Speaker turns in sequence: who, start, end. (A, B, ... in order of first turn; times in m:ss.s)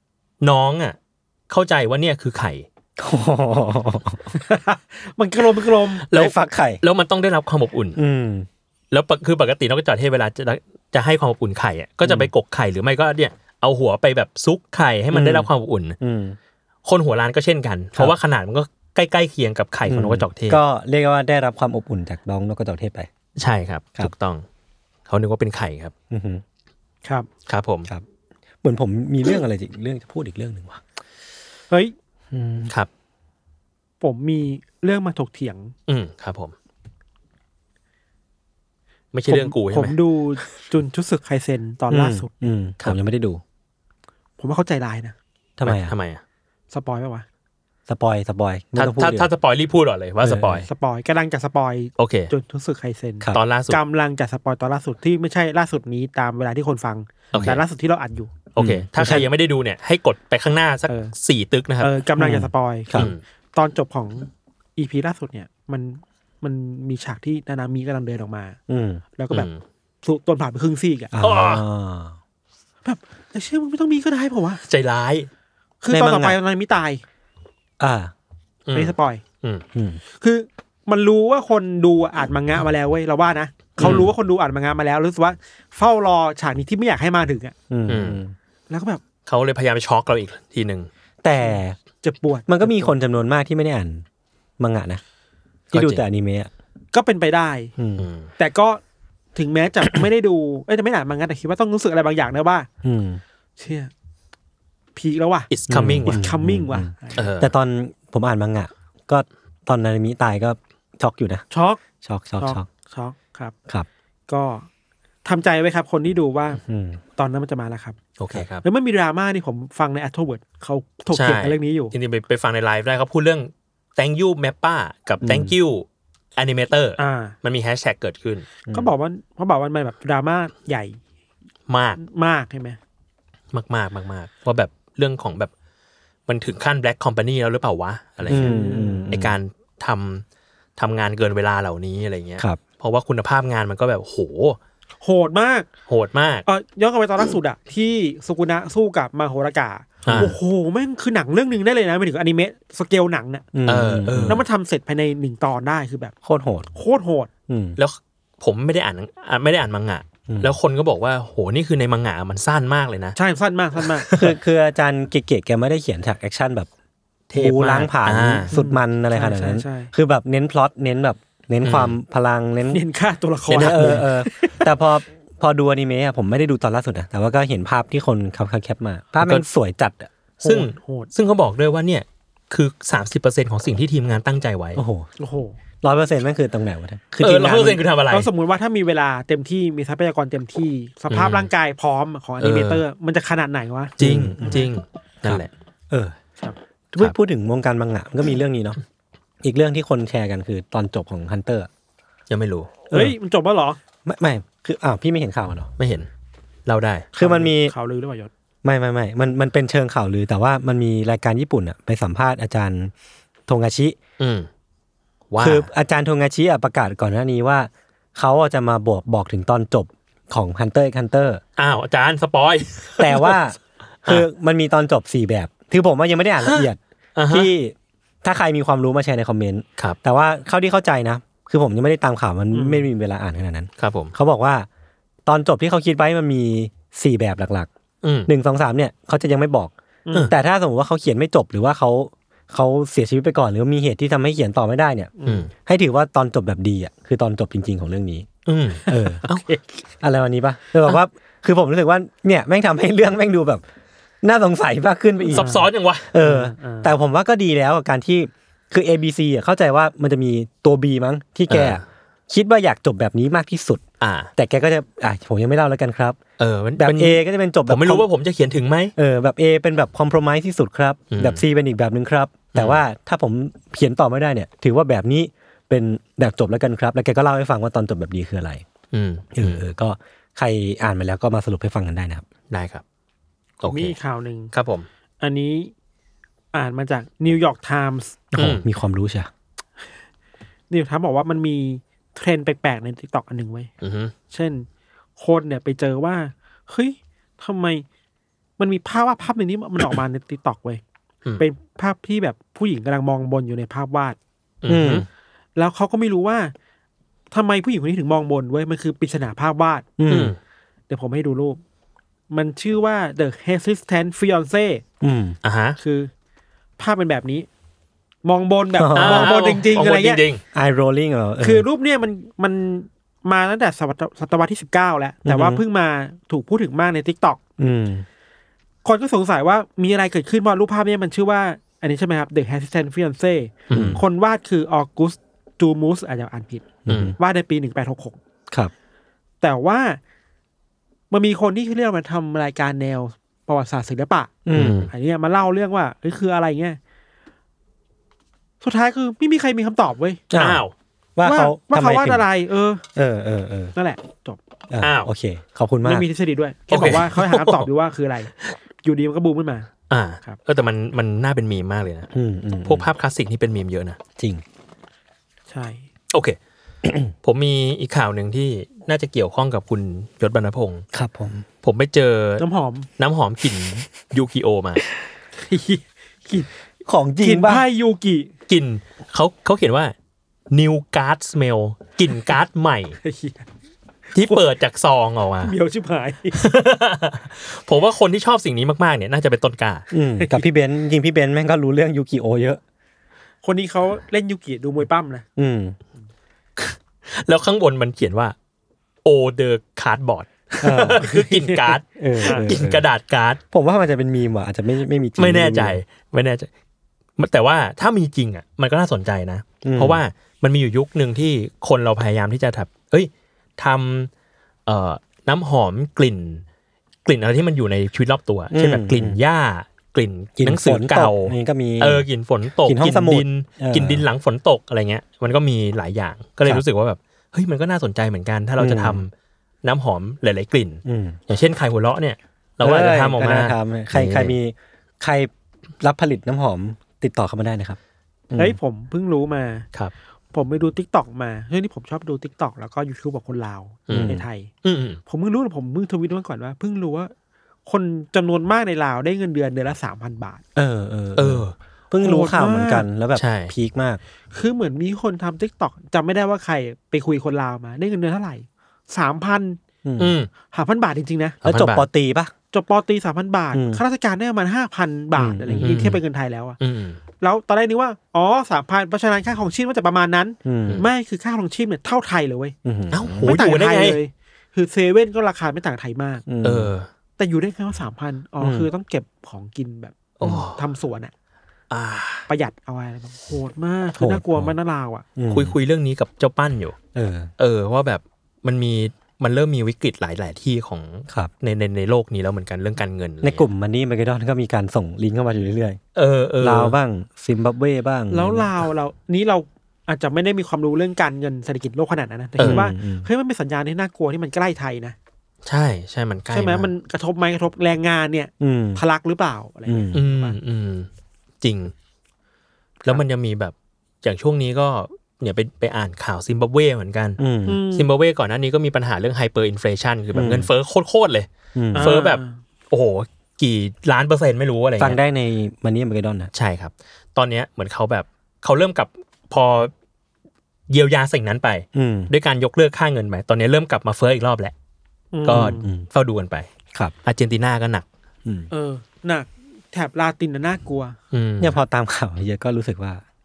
0:00.4-0:01.0 A
0:01.5-0:02.6 A
0:03.0-0:04.3 B
0:04.3-0:06.1 C
0:06.1-0:08.0 A
0:06.1-0:06.8 B
0:08.0-0:08.5 B
0:08.9-0:16.0 A
0:12.0-0:12.3 B
0:15.1-0:15.5 B
0:16.0-0:16.4 B
0:16.8-0:20.6 A
0:19.9-0:23.1 B
0:23.4-0:24.4 A
0:25.1-0:25.9 A
0:26.1-0:26.4 B
0:27.5-0:27.9 A
0:28.6-0:30.8 B
0:32.3-0:32.7 B
0:34.0-0:35.7 C
0:35.9-0:36.5 A
0:39.1-0:40.0 A
0:39.3-0:42.3 C
0:41.9-0:43.4 B
0:44.4-0:45.1 C
0:45.6-0:45.9 B
0:45.6-0:46.2 A
0:46.7-0:47.2 C
0:47.9-0:49.3 B
0:48.8-0:50.6 A
0:50.2-0:50.6 B
0:50.6-0:58.3 C
0:52.0-0:52.3 A
0:53.3-0:53.8 A
0:57.3-0:57.6 A
0:58.5-1:02.0 A
0:58.6-0:59.3 B
1:00.9-1:01.1 C
1:01.8-1:08.6 C
1:02.2-1:03.1 B
1:02.9-1:03.2 A
1:08.7-1:09.0 B
1:09.2-1:09.5 C
1:09.3-1:09.6 A
1:10.0-1:11.1 C
1:11.1-1:12.2 B
1:11.2-1:11.6 A
1:12.8-1:14.6 C
1:14.7-1:15.3 A
1:15.8-1:17.0 C
1:15.9-1:16.4 B
1:17.8-1:18.1 B
1:18.6-1:19.6 A
1:18.7-1:19.2 C
1:19.7-1:20.0 B
1:20.2-1:27.5 C
1:23.8-1:24.0 B
1:23.8-1:24.1 A
1:27.7-1:28.3 B
1:27.9-1:28.2 A
1:28.7-1:29.0 C
1:29.2-1:30.9 A
1:31.2-1:31.8 B
1:31.4-1:32.9 C
1:32.5-1:34.0 B
1:34.6-1:35.0 B
1:35.7-1:36.5 B
1:35.7-1:36.0 A
1:36.9-1:37.7 C
1:37.8-1:38.1 B
1:38.0-1:38.3 A
1:38.4-1:38.8 C
1:39.3-1:42.7 C
1:42.8-1:43.2 B
1:43.6-1:43.9 C
1:44.9-1:45.5 C
1:45.5-1:46.2 A
1:45.7-1:51.4 B
1:46.0-1:47.3 C
1:47.2-1:47.5 A
1:51.5-1:51.8 C
1:52.0-1:52.6 B
1:52.4-1:53.5 C
1:54.3-1:54.7 C
1:55.2-1:56.6 C
1:56.6-1:57.0 B
1:57.2-1:58.0 C
1:58.2-1:58.6 A
1:58.6-2:01.9 C
2:01.1-2:08.5 A
2:05.2-2:05.5 B
2:07.0-2:07.3 C
2:08.7-2:11.0 C
2:11.7-2:12.0 A
2:12.0-2:12.8 C
2:13.5-2:15.5 A
2:16.3-2:18.6 A
2:18.3-2:19.4 B
2:18.3-2:19.1 C
2:19.1-2:20.2 A
2:20.8-2:24.6 A
2:25.0-2:25.7 C
2:25.9-2:26.4 A
2:26.4-2:33.4 C
2:30.0-2:30.3 A
2:30.1-2:30.3 B
2:33.5-2:34.4 B
2:33.6-2:34.4 A
2:34.3-2:36.1 C
2:36.2-2:36.7 B
2:36.7-2:37.3 C
2:37.5-2:37.8 B
2:37.8-2:43.2 A
2:40.3-2:40.5 B
2:43.2-2:44.1 C
2:44.0-2:44.3 A
2:44.1-2:46.7 B
2:47.3-2:48.5 A
2:47.4-2:52.8 B
2:48.5-2:49.9 C
2:51.6-2:52.0 A
2:52.7-2:54.7 C
2:53.5-2:54.0 A
2:53.5-3:00.1 B
2:59.2-2:59.4 A
3:00.4-3:04.8 A
3:00.4-3:01.1 C
3:04.8-3:05.1 B
3:05.2-3:05.6 C
3:05.8-3:07.8 B
3:07.2-3:08.3 A
3:08.1-3:14.7 C
3:11.1-3:11.5 A
3:12.4-3:12.8 A
3:14.0-3:15.5 A
3:14.0-3:14.6 B
3:15.2-3:16.1 B
3:16.9-3:18.8 B
3:19.4-3:21.7 B
3:22.3-3:22.7 A
3:22.9-3:23.8 C
3:24.0-3:25.7 B
3:25.8-3:26.1 A
3:26.6-3:27.1 A
3:27.2-3:27.7 B
3:27.2-3:28.3 C
3:28.6-3:32.9 B
3:33.5-3:34.0 B
3:34.2-3:34.5 A
3:35.3-3:35.7 A
3:35.4-3:41.4 B
3:41.6-3:43.4 A
3:43.0-3:46.8 B
3:46.4-3:47.5 A
3:47.3-3:54.7 B
3:52.5-3:52.9 C
3:53.8-3:54.1 A
3:55.2-3:57.7 B
3:58.0-3:58.3 A
3:58.3-3:59.7 B
4:00.0-4:00.3 C
4:00.3-4:08.3 B
4:05.2-4:05.5 C
4:08.4-4:09.4 A
4:08.8-4:09.8 C
4:08.9-4:09.2 B
4:10.0-4:13.6 B
4:14.2-4:15.5 B
4:15.3-4:16.1 A
4:15.4-4:15.7 C
4:16.1-4:23.8 B
4:16.2-4:16.9 C
4:21.5-4:21.8 A
4:24.0-4:24.3 A
4:24.4-4:26.2 B
4:26.4-4:28.9 A
4:26.8-4:28.1 B
4:29.0-4:38.6 B
4:31.1-4:31.4 A
4:32.5-4:32.8 A
4:38.9-4:39.6 A
4:39.3-4:42.2 B
4:42.5-4:42.8 A
4:43.6-4:44.0 A
4:43.6-4:44.5 C
4:44.5-4:44.9 A
4:45.2-4:45.7 C
4:46.5-4:48.2 C
4:48.3-4:49.3 B
4:48.4-4:48.6 A
4:50.7-4:53.7 C
4:53.8-4:54.1 A
4:54.3-4:54.7 C
4:55.2-4:57.8 C
4:58.6-5:00.8 C
5:01.4-5:04.2 C
5:04.6-5:05.0 A
5:04.7-5:05.1 B
5:05.6-5:06.5 C
5:07.3-5:09.9 C
5:10.0-5:10.4 B
5:10.1-5:10.4 A
5:10.9-5:11.6 C
5:12.3-5:14.8 C
5:15.0-5:15.4 B
5:15.4-5:15.8 A
5:15.8-5:16.1 C
5:16.8-5:17.5 C
5:18.2-5:20.2 C
5:18.8-5:19.3 B
5:18.9-5:20.4 A
5:20.5-5:21.6 B
5:21.4-5:27.4 C
5:25.2-5:25.6 B
5:27.6-5:28.0 B
5:28.8-5:38.2 C
5:33.7-5:34.0 A
5:33.7-5:34.0 B
5:36.8-5:37.2 B
5:36.9-5:37.1 A
5:39.4-5:40.0 C
5:41.1-5:46.8 C
5:44.4-5:44.9 B
5:44.5-5:44.9 A
5:48.6-5:50.2 C
5:50.3-5:50.6 B
5:50.3-5:50.7 A
5:51.2-5:52.2 B
5:51.2-5:52.8 C
5:52.9-5:53.7 B
5:53.7-5:54.4 C
5:54.7-5:56.1 B
5:54.8-5:55.1 A
5:55.8-5:58.3 C
5:56.7-5:57.7 A
5:58.8-5:59.7 C
5:59.9-6:02.1 A
6:02.1-6:02.9 B
6:02.6-6:04.0 A
6:04.2-6:04.4 B
6:05.5-6:05.8 C
6:06.1-6:06.4 A
6:06.8-6:07.1 B
6:07.2-6:10.8 A
6:10.9-6:11.4 B
6:11.6-6:12.4 A
6:12.4-6:12.9 C
6:13.0-6:14.8 A
6:15.4-6:16.5 C
6:16.8-6:17.6 B
6:17.2-6:18.3 C
6:18.5-6:19.9 A
6:20.5-6:23.0 A
6:23.0-6:23.4 C
6:24.1-6:25.5 A
6:24.2-6:24.4 C
6:25.4-6:26.4 C
6:26.3-6:29.8 A
6:29.9-6:32.6 B
6:30.2-6:30.4 C
6:33.4-6:35.2 C
6:35.4-6:35.8 B
6:36.6-6:38.3 A
6:39.0-6:43.4 A
6:40.6-6:41.1 B
6:41.0-6:41.7 C
6:42.0-6:42.8 B
6:42.2-6:42.5 C
6:43.5-6:45.8 B
6:45.2-6:46.5 A
6:47.2-6:54.1 A
6:49.6-6:50.0 B
6:54.7-6:56.4 A
6:57.0-7:09.1 A
6:58.5-6:59.2 B
7:00.4-7:02.0 B
7:02.6-7:04.0 B
7:08.6-7:09.0 B
7:09.6-7:14.3 A
7:10.8-7:11.2 B
7:12.6-7:15.3 B
7:15.8-7:17.8 B
7:18.3-7:18.6 B
7:18.4-7:19.6 C
7:20.3-7:24.5 C
7:23.9-7:25.0 A
7:23.9-7:24.2 B
7:25.0-7:27.1 C
7:27.6-7:30.4 C
7:30.6-7:34.0 B
7:31.2-7:31.5 A
7:32.0-7:32.8 C
7:33.2-7:33.5 A
7:34.3-7:39.6 C
7:39.8-7:40.2 B
7:40.0-7:40.3 A
7:40.5-7:41.4 C
7:41.4-7:41.8 A
7:41.4-7:42.3 B
7:42.5-7:46.6 C
7:43.5-7:43.8 B
7:45.2-7:45.8 B
7:45.6-7:46.0 A
7:46.6-7:47.0 A
7:47.2-7:52.5 C
7:50.4-7:50.8 B
7:52.6-7:53.3 B
7:52.9-7:54.0 A
7:53.2-7:56.2 C
7:56.3-7:56.7 B
7:56.4-7:56.9 A
7:57.2-8:01.1 C
7:58.4-7:58.7 B
8:00.2-8:00.6 A
8:00.2-8:00.5 B
8:01.7-8:02.3 A
8:02.3-8:05.0 C
8:04.0-8:04.5 B
8:05.2-8:05.6 B
8:05.3-8:06.8 A
8:06.9-8:07.3 B
8:07.4-8:13.5 A
8:13.2-8:15.8 B
8:15.9-8:16.7 A
8:16.4-8:18.5 B
8:18.1-8:25.0 C
8:22.4-8:22.6 A
8:22.4-8:23.1 B
8:25.4-8:26.7 A
8:26.3-8:30.4 C
8:28.4-8:28.8 B
8:29.6-8:30.0 B
8:29.9-8:30.9 A
8:31.4-8:31.7 A
8:32.8-8:37.2 A
8:37.2-8:37.6 B
8:37.5-8:37.9 C
8:37.7-8:45.0 A
8:40.1-8:40.5 B
8:41.5-8:41.9 B
8:41.7-8:42.4 C
8:44.8-8:46.3 B
8:46.3-8:49.7 A
8:50.7-8:54.5 A
8:51.7-8:52.1 B
8:55.1-8:55.7 C
8:55.2-8:56.5 A
8:55.3-8:55.9 B
8:57.0-8:57.9 A
8:58.5-9:01.0 C
9:01.1-9:01.6 A
9:01.4-9:03.0 B